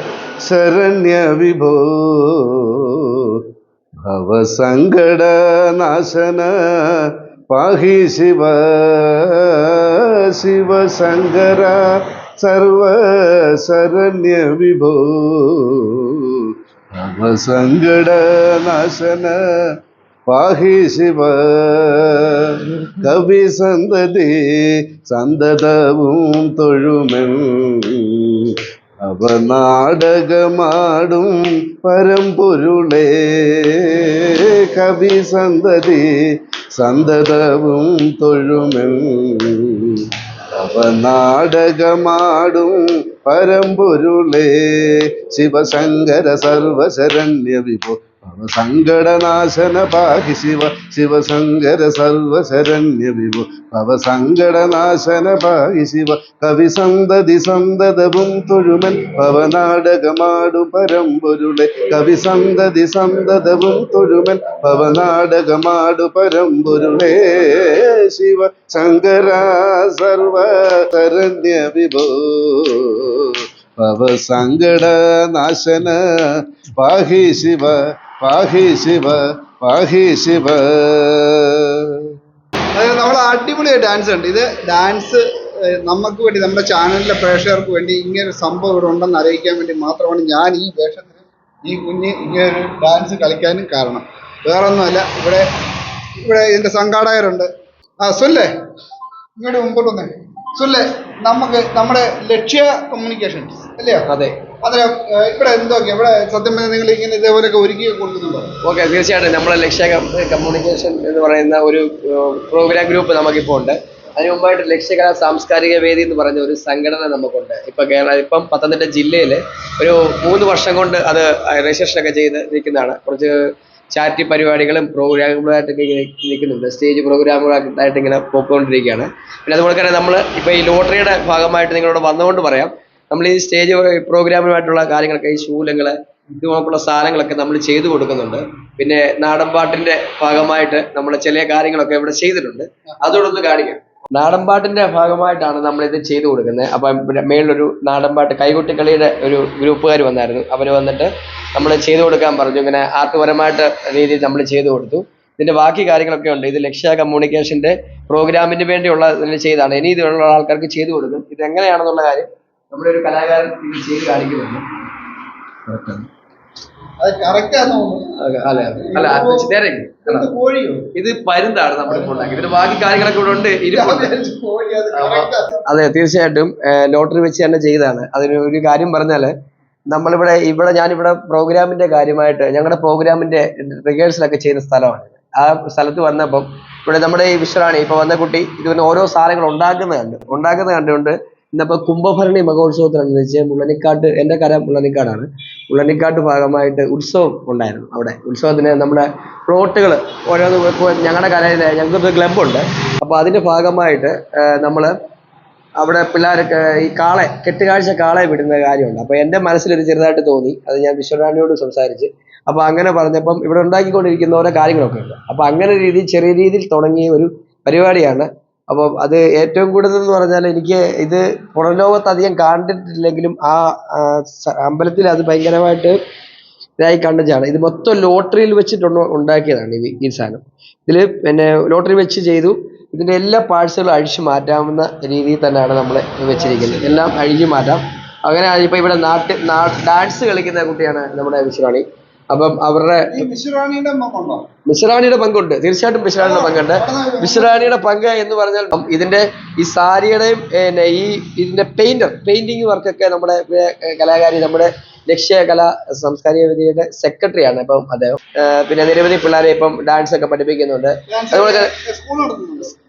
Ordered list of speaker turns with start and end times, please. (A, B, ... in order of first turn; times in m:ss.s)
0:00.4-0:02.6 A
0:04.0-0:06.5 A
0:07.5-0:11.8 A
0:12.4-0:15.9 A
0:16.9-0:19.4 A
0:20.3-0:28.5 A
0:29.0-0:36.1 A
0:36.8-0:39.9 A
0:40.6-1:16.0 A
1:16.8-1:21.6 A
1:22.8-1:25.2 B
1:25.7-1:35.5 B
1:36.2-1:37.5 B
1:38.0-1:38.5 B
1:39.4-1:44.1 B
1:44.1-1:44.4 C
1:44.6-1:48.5 B
1:48.6-2:03.4 C
2:03.9-2:44.6 C
2:45.7-2:46.1 C
2:47.0-2:48.2 B
2:48.2-2:50.3 C
2:48.7-2:49.6 B
2:50.1-2:50.9 B
2:51.0-2:54.1 C
2:51.9-2:52.5 B
2:53.7-2:55.6 B
2:55.0-2:59.3 C
2:59.9-3:24.9 C
3:25.8-3:46.0 C
3:46.8-4:03.3 C
3:56.3-3:57.0 B
4:03.1-4:04.5 B
4:04.7-4:21.7 C
4:06.2-4:07.8 B
4:21.1-4:22.7 B